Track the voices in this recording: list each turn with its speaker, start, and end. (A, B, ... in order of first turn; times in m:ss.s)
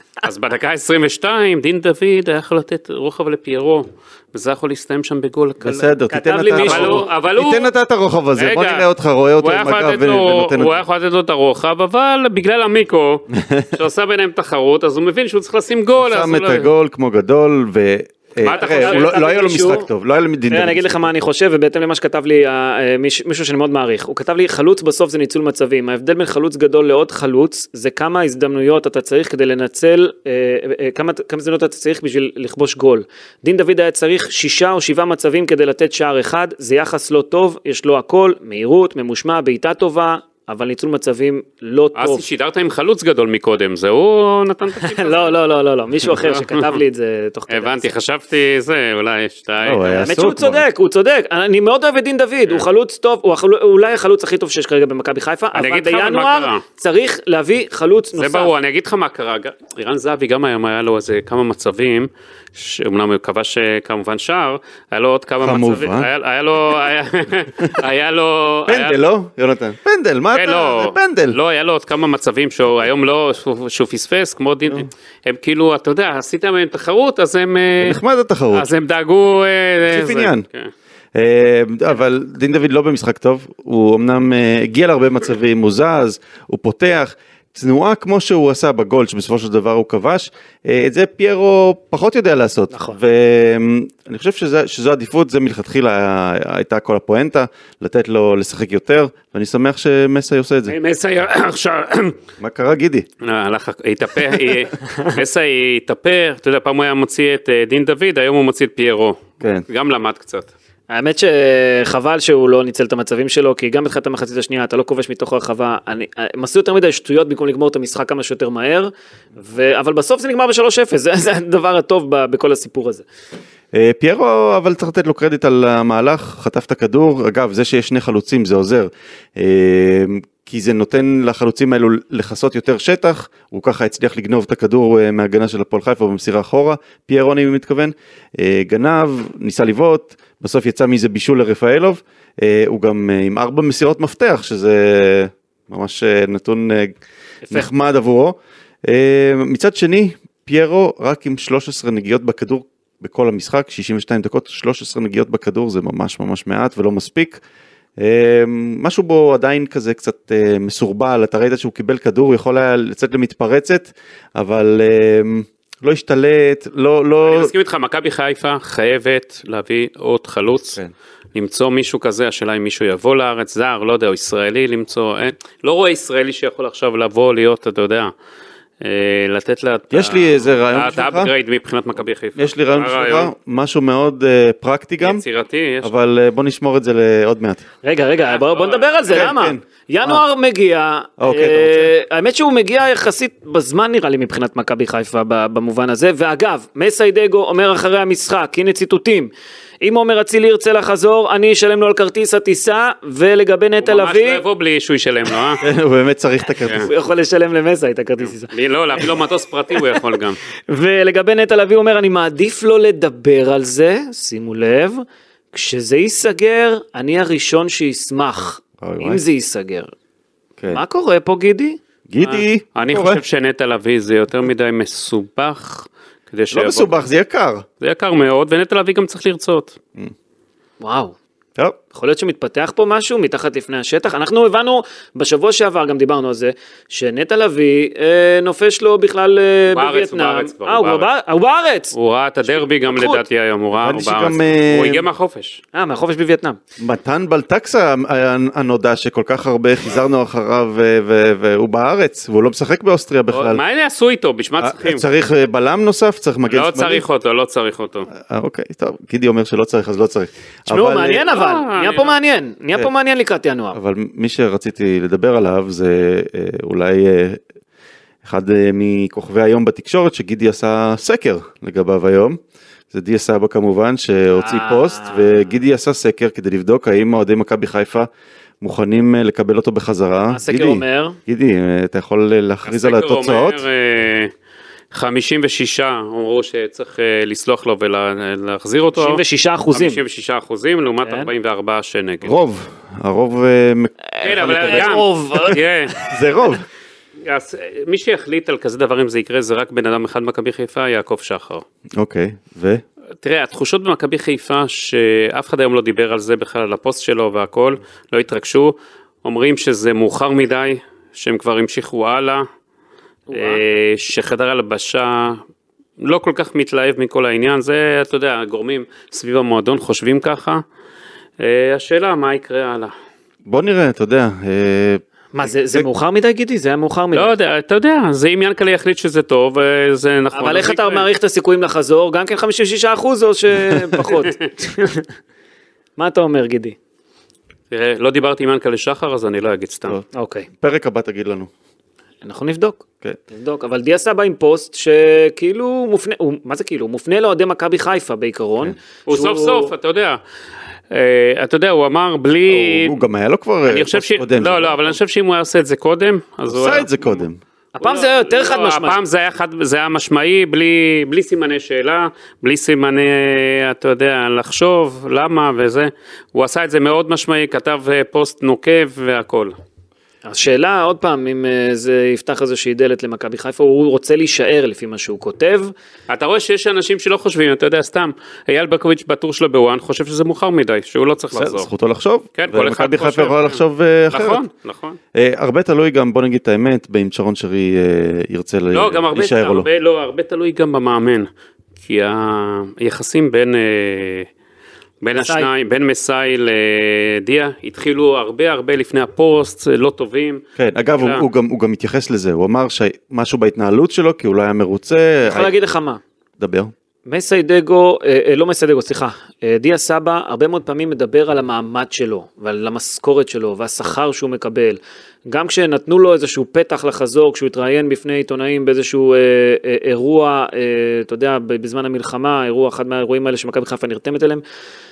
0:00.2-0:05.8 A
0:05.6-0:10.8 B
0:05.8-0:07.1 C
0:06.6-0:07.7 A
0:08.4-0:08.9 A
0:09.4-0:16.7 A
0:13.4-0:13.7 B
0:16.0-0:21.1 B
0:18.4-0:19.2 A
0:18.4-0:19.9 C
0:20.5-0:42.2 C
0:42.0-0:45.4 A
0:44.8-0:47.9 C
0:46.2-0:46.8 A
0:47.5-0:50.1 A
0:49.6-0:50.6 B
0:50.0-0:58.5 C
0:55.5-0:56.6 A
0:58.2-1:09.0 A
1:05.4-1:06.1 B
1:08.7-1:11.4 B
1:10.3-1:18.0 A
1:17.8-1:18.7 B
1:18.5-1:20.7 A
1:19.9-1:20.4 B
1:21.2-1:40.8 B
1:32.7-1:33.0 C
1:40.7-1:42.2 A
1:42.4-1:43.1 B
1:43.2-1:50.5 A
1:50.9-2:03.0 C
2:03.7-2:27.0 B
2:27.4-2:27.7 C
2:27.5-2:37.4 B
2:38.0-2:47.5 B
2:47.2-2:50.8 A
2:51.3-2:58.1 A
2:58.8-3:03.3 A
2:59.9-3:01.3 B
3:02.4-3:05.2 B
3:05.0-3:05.9 A
3:05.8-3:07.6 B
3:07.8-3:19.3 C
3:08.2-3:09.4 A
3:09.1-3:10.2 B
3:11.2-3:11.9 B
3:19.8-3:24.4 C
3:23.8-3:25.6 A
3:25.6-3:26.9 B
3:26.7-3:29.1 C
3:28.4-3:30.4 A
3:30.7-3:39.9 C
3:38.8-3:39.2 B
3:40.7-3:41.8 C
3:42.1-3:43.2 B
3:42.3-3:46.9 A
3:46.5-3:47.6 B
3:47.8-3:49.8 A
3:50.8-3:51.2 C
3:51.9-4:03.2 C
3:59.7-4:01.1 A
4:01.9-4:05.6 A
4:03.8-4:05.0 B
4:05.7-4:06.6 C
4:06.8-4:13.6 B
4:13.3-4:15.1 A
4:14.6-4:17.0 B
4:16.5-4:18.1 A
4:18.1-4:21.2 B
4:20.7-4:23.8 C
4:21.3-4:22.2 A
4:23.7-4:27.4 B
4:28.2-4:32.4 B
4:32.9-4:38.1 B
4:34.4-4:35.4 C
4:38.6-4:43.6 B
4:40.3-4:41.2 C
4:42.6-4:44.3 A
4:44.9-4:49.2 A
4:49.0-4:50.0 C
4:49.7-4:52.4 A
4:51.0-4:51.3 C
4:52.2-4:55.0 B
4:54.1-4:56.1 C
4:54.2-4:56.0 A
4:56.0-4:56.6 B
4:57.2-5:01.6 A
5:02.0-5:02.8 B
5:03.2-5:12.4 A
5:13.3-5:13.6 C
5:13.3-5:15.4 A
5:16.0-5:20.6 A
5:21.4-5:22.9 A
5:23.5-5:25.9 B
5:25.3-5:27.3 C
5:27.1-5:31.1 A
5:30.3-5:35.1 C
5:33.6-5:34.0 B
5:36.0-5:36.8 C
5:37.7-5:40.0 A
5:39.9-5:41.5 B
5:40.1-5:40.5 C
5:42.2-5:49.7 C
5:49.1-5:50.2 A
5:50.9-5:53.0 A
5:52.5-5:55.0 B
5:53.7-5:57.2 A
5:56.5-5:57.4 B
5:57.8-5:59.0 C
5:57.8-6:09.6 A
6:10.3-6:15.7 C
6:16.1-6:21.7 A
6:21.4-6:24.4 B
6:22.4-6:25.0 A
6:25.1-6:29.7 B
6:28.7-6:31.3 A
6:31.8-6:34.3 A
6:35.0-6:40.4 A
6:35.2-6:35.5 C
6:40.6-6:45.5 B
6:41.0-6:41.2 A
6:45.2-6:46.0 C
6:46.4-6:46.7 B
6:47.1-7:04.4 C